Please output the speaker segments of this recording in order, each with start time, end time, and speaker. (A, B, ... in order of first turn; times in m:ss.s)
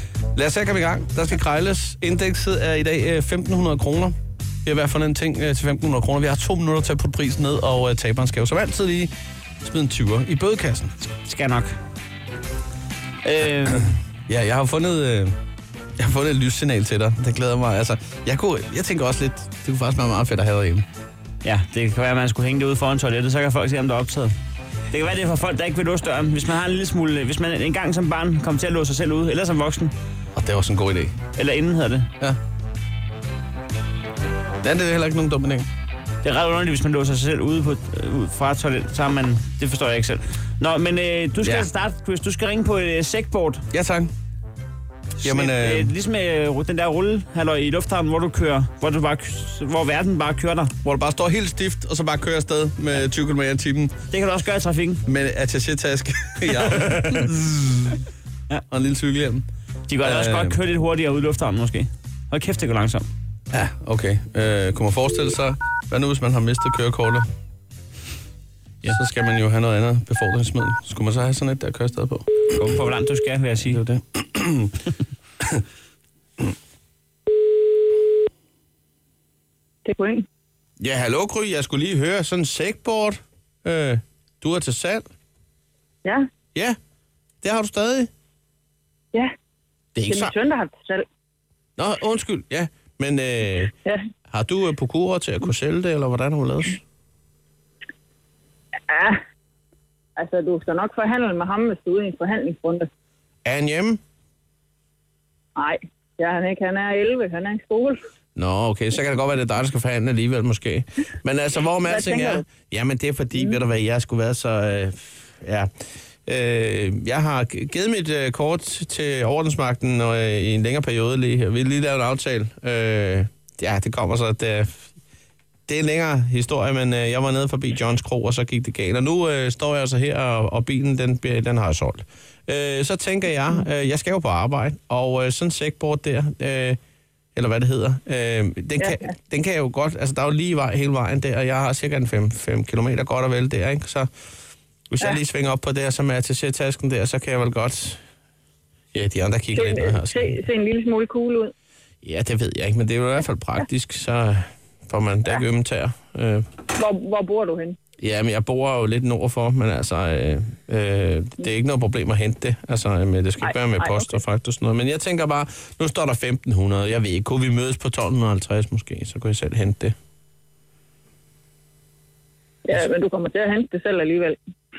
0:00.3-0:10.9 A
0:11.2-0:11.8 B
0:13.2-0:14.0 B
0:13.7-0:15.3 A
0:16.0-0:20.8 A
0:21.4-0:24.3 B
0:24.9-0:29.9 B
0:30.3-0:31.2 A
0:31.4-0:32.1 B
0:34.6-0:35.7 A
0:36.2-0:43.6 B
0:41.4-0:41.7 A
0:43.7-0:44.1 A
0:45.2-0:50.7 B
0:45.2-0:45.9 A
0:50.8-0:53.9 A
0:54.1-0:55.0 B
0:55.0-0:58.0 A
0:56.5-0:57.3 B
0:58.7-0:59.4 A
0:59.9-1:03.1 B
1:00.0-1:00.6 A
1:03.5-1:07.3 A
1:08.8-1:12.6 A
1:12.5-1:13.8 B
1:13.6-1:14.9 A
1:19.8-1:20.2 C
1:20.8-1:25.1 A
1:27.4-1:28.1 A
1:29.9-1:30.3 A
1:30.1-1:31.0 C
1:31.8-1:33.7 A
1:34.3-1:36.8 A
1:38.9-1:39.2 C
1:40.2-1:42.9 C
1:43.4-1:44.0 A
1:45.6-1:48.0 C
1:48.4-1:55.7 A
1:51.9-1:52.4 C
1:56.2-2:04.9 A
2:05.7-2:16.8 A
2:17.3-2:24.1 A
2:18.8-2:19.1 C
2:24.9-2:28.0 A
2:28.9-2:30.4 A
2:29.5-2:31.5 C
2:32.0-2:36.5 A
2:36.8-2:37.8 C
2:38.0-2:50.0 A
2:43.4-2:44.2 C
2:52.6-2:54.4 C